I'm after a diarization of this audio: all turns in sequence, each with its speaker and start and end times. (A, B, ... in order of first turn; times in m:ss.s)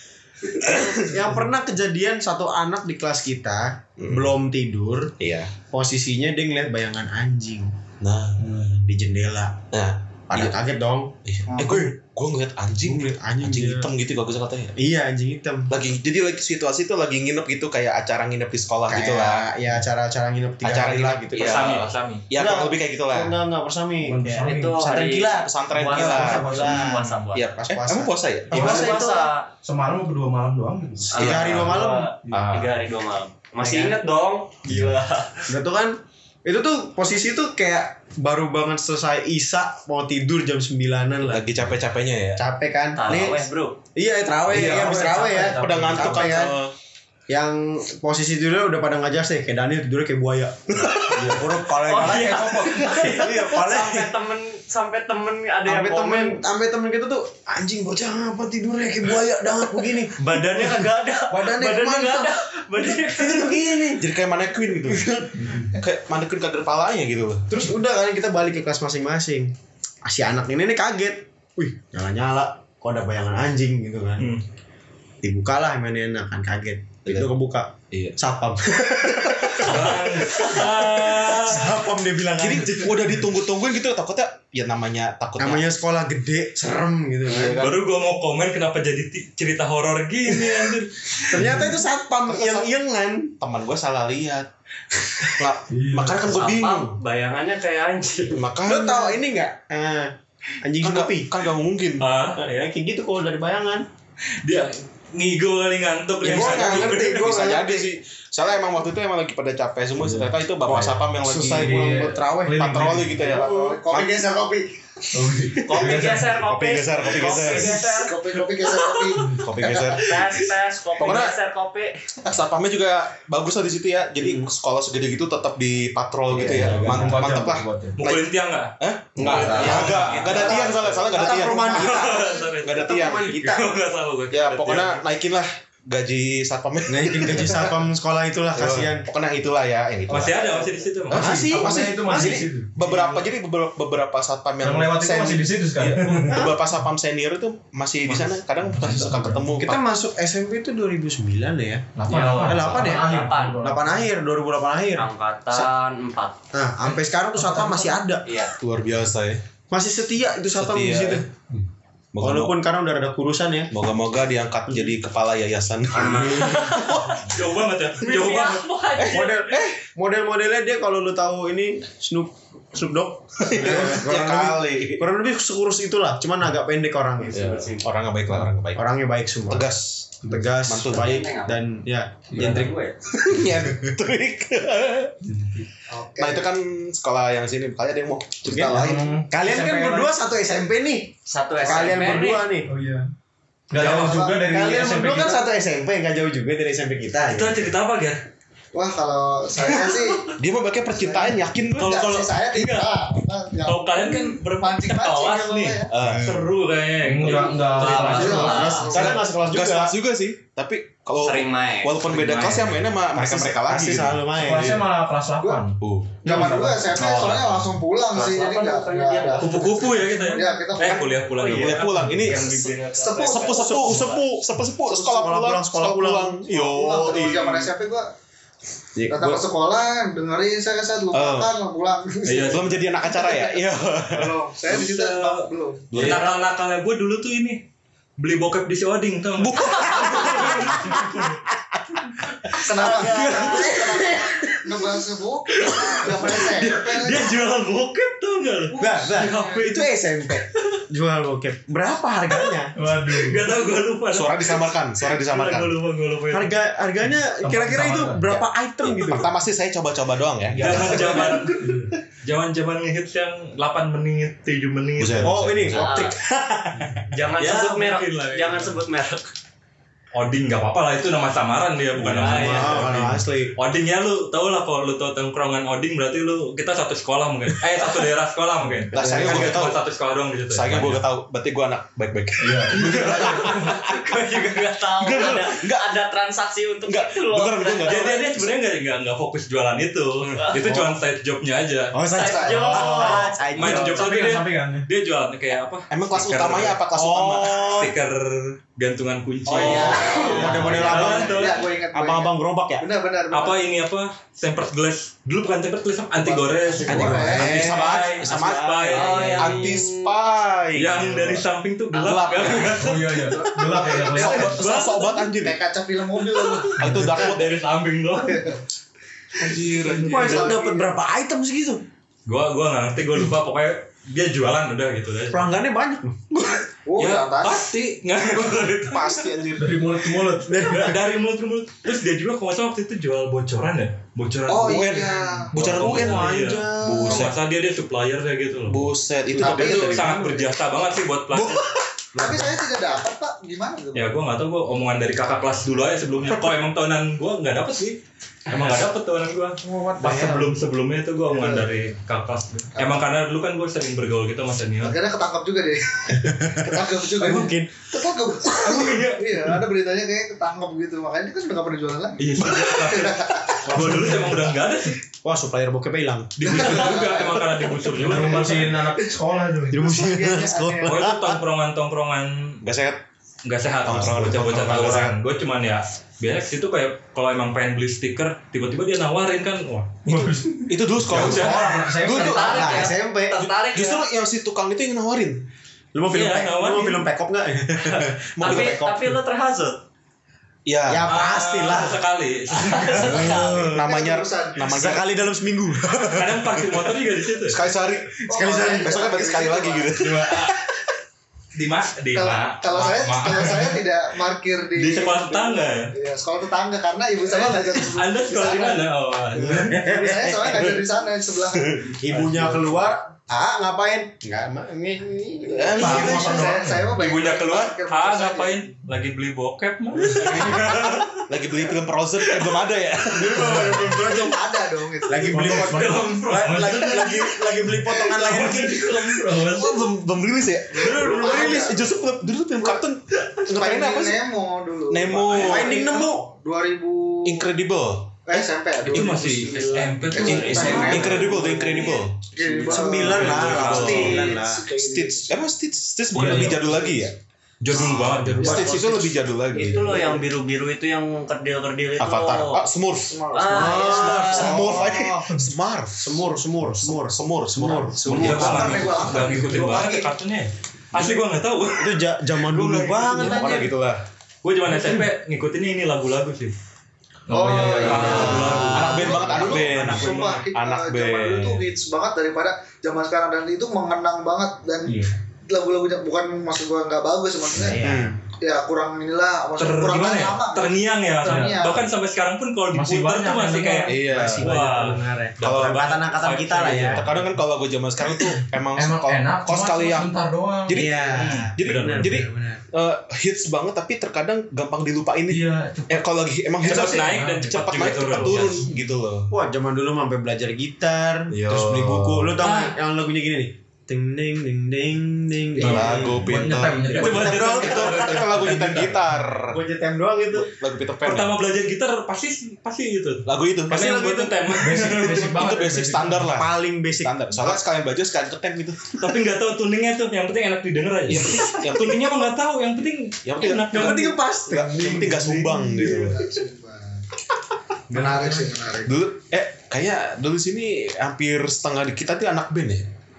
0:00.6-0:05.1 A
0:00.6-0:01.1 B
0:04.0-0:04.4 B
0:05.2-0:05.5 B
0:05.7-0:07.8 A
0:08.0-0:08.4 B
0:08.4-0:08.8 C
0:08.7-0:09.6 A
0:09.7-0:10.6 B
0:10.3-0:11.9 A
0:11.2-0:14.8 B
0:12.8-0:13.9 A
0:14.8-0:15.7 A
0:15.7-0:19.5 B
0:18.9-0:21.7 A
0:20.6-0:23.4 B
0:21.3-0:22.2 D
0:22.3-0:29.3 A
0:24.0-0:24.8 C
0:24.4-0:27.5 E
0:25.3-0:26.7 B
0:26.0-0:26.9 C
0:27.3-0:29.0 B
0:28.5-0:29.5 E
0:29.6-0:32.5 C
0:31.1-0:32.1 A
0:31.1-0:31.7 B
0:31.1-0:35.5 E
0:32.3-0:32.7 B
0:33.6-0:34.0 A
0:35.5-0:41.7 A
0:41.2-0:42.4 B
0:42.4-0:46.5 A
0:43.0-0:43.8 E
0:44.5-0:46.4 C
0:44.5-0:46.7 B
0:47.3-0:54.1 A
0:51.8-0:56.4 E
0:52.3-0:52.9 C
0:55.6-1:00.2 A
1:00.2-1:03.6 E
1:01.3-1:02.3 A
1:03.1-1:04.1 A
1:03.8-1:05.1 B
1:04.9-1:05.4 A
1:05.4-1:05.8 C
1:05.7-1:07.7 B
1:07.5-1:09.5 A
1:10.0-1:14.3 A
1:15.2-1:23.2 A
1:17.9-1:18.2 B
1:19.3-1:19.9 B
1:19.6-1:21.7 D
1:22.4-1:25.6 B
1:25.4-1:27.6 A
1:27.3-1:27.8 B
1:27.6-1:31.4 D
1:31.3-1:33.3 A
1:31.4-1:31.7 C
1:32.3-1:32.7 B
1:33.4-1:34.5 B
1:35.3-1:37.0 B
1:35.7-1:36.3 C
1:36.3-1:38.4 E
1:38.3-1:39.2 B
1:38.6-1:41.3 A
1:40.8-1:42.1 B
1:42.0-1:42.4 D
1:42.4-1:43.9 A
1:44.4-1:47.1 D
1:46.2-1:47.9 A
1:46.2-1:54.2 B
1:50.7-1:54.0 A
1:51.5-1:53.4 C
1:53.2-1:54.7 F
1:55.1-1:56.4 C
1:55.6-1:59.1 E
1:56.2-1:57.8 B
1:57.8-1:59.4 F
1:59.2-1:59.5 C
1:59.4-2:00.3 B
1:59.8-2:02.0 E
2:01.0-2:01.4 B
2:02.2-2:08.3 B
2:04.2-2:04.5 A
2:06.3-2:08.0 C
2:06.4-2:07.0 A
2:08.0-2:10.6 D
2:08.8-2:13.6 B
2:09.2-2:13.6 A
2:09.2-2:10.0 C
2:11.3-2:15.0 D
2:14.3-2:17.8 B
2:16.9-2:19.1 A
2:18.5-2:29.8 B
2:20.1-2:21.3 D
2:21.1-2:22.5 A
2:21.2-2:23.0 C
2:24.6-2:26.4 C
2:28.0-2:28.4 D
2:28.7-2:29.5 C
2:29.6-2:35.7 A
2:32.0-2:34.1 C
2:32.1-2:33.6 E
2:32.5-2:33.0 B
2:34.9-2:36.4 E
2:36.5-2:38.3 A
2:37.4-2:38.0 C
2:38.2-2:38.5 E
2:38.6-2:39.4 B
2:39.7-2:41.3 A
2:40.6-2:41.3 B
2:42.1-2:42.6 B
2:42.2-2:43.7 A
2:43.7-2:47.2 B
2:45.9-2:47.2 E
2:46.0-2:46.8 A
2:47.2-2:48.7 D
2:48.0-2:49.4 E
2:49.0-2:49.8 B
2:49.0-2:57.5 A
2:53.4-2:55.1 B
2:57.2-2:57.8 E
2:57.3-2:58.8 B
2:58.8-2:59.7 A
2:59.5-3:01.2 B
3:00.2-3:03.7 A
3:00.9-3:01.6 E
3:02.3-3:02.7 C
3:02.4-3:03.0 E
3:03.2-3:05.2 B
3:05.2-3:05.7 C
3:05.9-3:06.4 F
3:06.2-3:09.1 B
3:08.5-3:12.7 A
3:08.5-3:09.1 F
3:08.7-3:10.1 C
3:11.3-3:12.5 E
3:12.6-3:13.1 C
3:13.7-3:15.4 C
3:13.8-3:14.6 F
3:13.8-3:17.7 A
3:17.2-3:18.2 D
3:18.7-3:20.3 F
3:20.4-3:22.1 B
3:20.9-3:25.9 F
3:21.8-3:23.0 D
3:23.6-3:28.5 D
3:25.9-3:26.4 B
3:26.0-3:26.4 A
3:27.0-3:28.8 C
3:27.6-3:29.1 E
3:27.9-3:29.2 F
3:28.2-3:29.9 A
3:28.9-3:34.3 B
3:31.2-3:32.2 E
3:32.1-3:32.7 D
3:33.1-3:34.9 A
3:34.3-3:37.0 C
3:35.8-3:36.3 B
3:36.2-3:41.1 F
3:37.0-3:37.6 B
3:38.1-3:40.1 E
3:39.4-3:43.2 D
3:40.8-3:47.7 B
3:42.7-3:43.7 E
3:43.0-3:43.8 F
3:43.4-3:46.6 A
3:46.5-3:48.1 F
3:49.0-3:49.4 A
3:49.1-3:53.1 F
3:51.1-3:51.5 B
3:52.3-3:52.6 D
3:52.5-3:54.3 B
3:54.1-3:55.9 F
3:54.7-3:57.6 D
3:55.9-3:56.4 B
3:58.2-4:01.4 D
3:59.4-4:01.0 B
4:02.5-4:04.2 D
4:02.6-4:07.4 F
4:02.6-4:04.4 A
4:05.6-4:09.9 D
4:08.8-4:09.7 F
4:08.8-4:12.8 A
4:12.8-4:13.4 C
4:13.0-4:16.5 D
4:14.1-4:15.8 B
4:16.3-4:19.3 A
4:17.2-4:18.4 C
4:18.8-4:21.4 B
4:20.6-4:25.6 D
4:20.6-4:21.4 A
4:21.4-4:21.9 C
4:25.0-4:26.0 B
4:25.2-4:27.0 A
4:25.8-4:26.2 E
4:27.1-4:29.3 E
4:27.4-4:28.8 D
4:30.1-4:41.0 D
4:32.0-4:33.6 A
4:32.1-4:33.0 E
4:38.9-4:39.8 B
4:39.0-4:39.5 A
4:40.5-4:44.2 B
4:42.4-4:43.5 C
4:42.8-4:43.6 D
4:43.2-4:48.3 E
4:45.0-4:45.9 B
4:46.9-4:48.5 B
4:47.8-4:52.0 D
4:50.2-4:50.6 B
4:50.4-4:50.7 E
4:51.9-4:54.1 A
4:52.1-4:53.9 E
4:52.2-4:52.9 F
4:53.5-5:01.6 D
4:53.6-4:54.9 C
4:55.9-4:57.9 B
4:57.0-4:57.9 A
4:59.5-5:02.8 A
4:59.5-5:00.7 E
4:59.5-5:01.1 B
4:59.6-5:03.6 F
5:03.3-5:09.7 D
5:06.4-5:07.8 F
5:06.9-5:08.5 A
5:06.9-5:12.8 B
5:08.9-5:10.1 E
5:10.8-5:13.2 D
5:12.8-5:14.8 C
5:13.3-5:16.8 F
5:14.1-5:15.6 B
5:14.2-5:15.0 D
5:16.4-5:18.5 D
5:16.8-5:17.6 B
5:16.8-5:17.1 C
5:18.3-5:18.5 F
5:19.4-5:20.6 D
5:19.5-5:20.9 F
5:20.0-5:21.8 A
5:22.3-5:25.5 D
5:25.3-5:26.6 A
5:26.8-5:27.7 F
5:27.0-5:29.3 D
5:28.6-5:29.9 B
5:29.6-5:30.7 C
5:30.5-5:31.0 A
5:30.6-5:35.0 D
5:34.5-5:35.5 F
5:34.6-5:37.4 B
5:35.5-5:41.6 D
5:35.6-5:37.3 A
5:38.7-5:40.3 B
5:39.4-5:40.4 A
5:42.2-5:42.5 B
5:42.2-5:44.1 F
5:44.0-5:55.0 D
5:49.7-5:50.5 A
5:51.3-5:51.7 F
5:54.8-6:03.8 F
5:56.2-5:57.7 A
5:58.5-5:59.4 D
6:02.2-6:05.0 D
6:03.7-6:04.5 A
6:05.2-6:07.4 A
6:06.4-6:08.7 D
6:06.5-6:07.4 F
6:07.9-6:09.9 C
6:08.2-6:08.7 A
6:09.7-6:11.4 A
6:09.8-6:11.1 F
6:10.8-6:12.6 D
6:12.6-6:13.0 B
6:13.4-6:20.0 D
6:13.8-6:15.2 B
6:14.5-6:15.0 A
6:20.0-6:22.9 C
6:20.7-6:22.9 B
6:21.1-6:21.8 D
6:22.0-6:23.5 A
6:22.0-6:24.1 E
6:23.7-6:25.4 B
6:25.9-6:29.0 A
6:26.1-6:27.1 D
6:28.4-6:28.9 B
6:28.4-6:29.8 E
6:30.7-6:31.1 B
6:30.9-6:32.0 A
6:31.0-6:33.4 D
6:32.6-6:33.6 E
6:32.9-6:33.8 A
6:33.0-6:35.1 B
6:33.8-6:34.7 F
6:34.6-6:36.6 A
6:36.0-6:37.6 D
6:37.4-6:40.7 B
6:38.3-6:39.9 F
6:38.4-6:39.1 A
6:40.0-6:40.6 D
6:41.5-6:43.8 D
6:42.1-6:52.0 F
6:44.8-6:45.9 D
6:47.5-6:49.8 D
6:49.4-6:50.8 A
6:52.0-6:56.5 A
6:52.1-6:52.8 C
6:55.5-6:56.7 B
6:55.8-6:58.7 F
6:55.8-6:56.9 C
6:57.0-7:01.3 D
7:00.2-7:00.8 A
7:00.3-7:04.0 B
7:03.2-7:04.3 A
7:03.2-7:05.5 F
7:05.1-7:09.4 A
7:05.3-7:06.2 C
7:05.4-7:09.8 D
7:09.3-7:14.2 B
7:10.8-7:11.9 F
7:10.8-7:11.9 A
7:13.5-7:17.5 F
7:14.9-7:15.9 B
7:15.3-7:16.2 A
7:17.2-7:18.4 B
7:18.3-7:25.4 F
7:18.9-7:21.2 D
7:20.2-7:22.2 B
7:20.6-7:21.3 E
7:22.6-7:24.6 A
7:23.0-7:24.3 D
7:23.0-7:27.2 B
7:23.6-7:24.2 E
7:26.1-7:26.8 C
7:27.6-7:28.8 D
7:27.7-7:28.7 A
7:27.8-7:30.1 B
7:27.8-7:32.6 E
7:32.0-7:33.2 B
7:33.1-7:34.9 F
7:33.3-7:34.7 E
7:33.3-7:35.1 A
7:33.8-7:39.3 B
7:36.0-7:39.2 A
7:38.0-7:42.0 D
7:38.2-7:40.1 F
7:41.8-7:43.7 A
7:42.5-7:44.0 B
7:44.4-7:46.6 D
7:47.3-7:48.9 C
7:47.3-7:57.8 F
7:47.6-7:51.7 B
7:47.8-7:50.4 D
7:47.9-7:49.0 A
7:54.9-7:55.1 C
7:57.6-7:58.2 A
7:57.8-7:58.2 B
7:58.4-8:01.8 F
7:59.6-8:07.1 D
8:01.2-8:01.7 C
8:02.7-8:04.0 C
8:03.9-8:04.5 B
8:04.0-8:07.0 A
8:05.4-8:06.0 B
8:06.7-8:10.1 B
8:08.8-8:10.9 C
8:10.7-8:19.3 B
8:10.7-8:12.6 A
8:11.0-8:12.1 D
8:15.3-8:16.0 C
8:16.6-8:17.6 C
8:16.6-8:18.7 D
8:19.3-8:28.2 A
8:21.3-8:22.4 B
8:22.4-8:22.8 D
8:25.6-8:29.6 B
8:25.6-8:29.0 C
8:26.9-8:28.5 D
8:29.5-8:30.5 A
8:30.3-8:31.4 B
8:31.0-8:35.4 D
8:33.3-8:33.8 B
8:33.7-8:34.8 A
8:34.6-8:36.3 C
8:34.9-8:39.1 B
8:36.3-8:37.6 A
8:39.0-8:44.2 D
8:41.1-8:42.3 B
8:43.2-8:46.3 B
8:43.7-8:45.5 A
8:45.6-8:47.0 F
8:47.9-8:49.0 F
8:48.0-8:48.4 C
8:48.8-8:52.9 B